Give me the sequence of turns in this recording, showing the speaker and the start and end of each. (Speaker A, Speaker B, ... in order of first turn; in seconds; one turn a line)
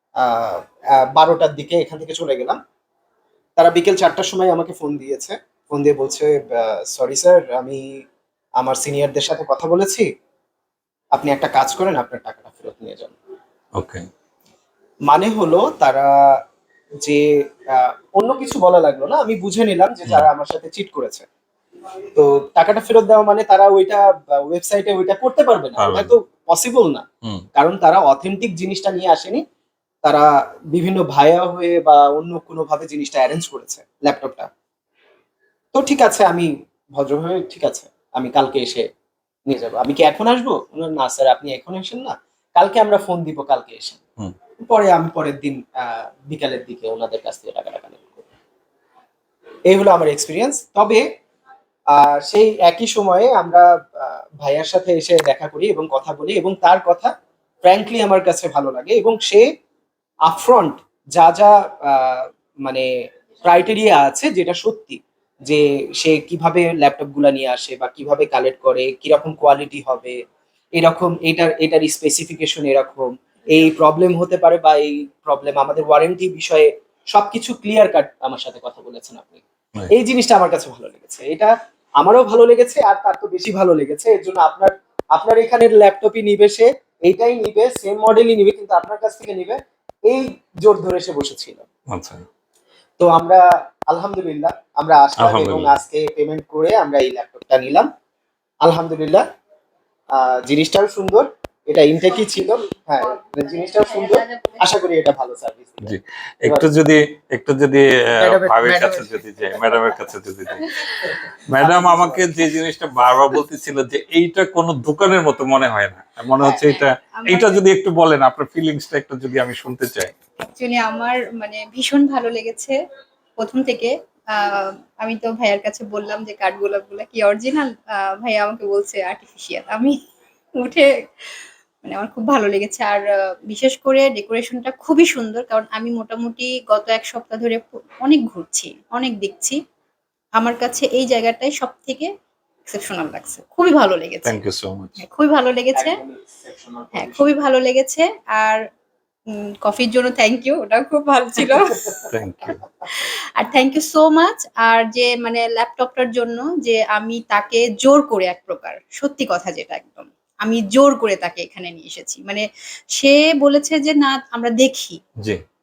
Speaker A: 0.2-2.6
Speaker A: 3.6-8.0
Speaker A: 8.6-10.1
Speaker A: 11.1-13.1
Speaker B: 13.8-14.0
Speaker A: 15.1-16.4
Speaker A: 17.0-21.2
Speaker A: 22.1-27.0
Speaker B: 25.8-26.1
Speaker A: 27.6-29.4
Speaker A: 30.0-34.5
Speaker A: 35.7-38.9
Speaker A: 39.5-44.0
Speaker A: 44.6-48.2
Speaker A: 49.7-51.0
Speaker A: 51.9-57.1
Speaker A: 57.6-59.5
Speaker A: 60.2-62.9
Speaker A: 63.4-70.2
Speaker A: 70.8-89.6
Speaker A: 90.1-91.6
Speaker B: 91.9-92.2
Speaker A: 93.0-97.9
Speaker B: 95.2-95.8
Speaker A: 98.6-99.2
Speaker A: 100.1-106.7
Speaker C: 103.2-104.6
Speaker B: 105.8-110.8
Speaker A: 108.2-109.9
Speaker B: 111.5-120.1
Speaker A: 111.6-112.3
Speaker C: 116.4-117.6
Speaker C: 120.4-122.8
Speaker C: 123.4-129.9
Speaker C: 130.6-139.6
Speaker C: 140.4-142.1
Speaker C: 142.7-144.3
Speaker B: 144.2-145.0
Speaker C: 145.0-146.0
Speaker A: 145.7-147.4
Speaker C: 146.9-148.6
Speaker C: 149.3-152.1
Speaker B: 152.1-152.6
Speaker C: 152.8-162.4
Speaker C: 163.0-165.0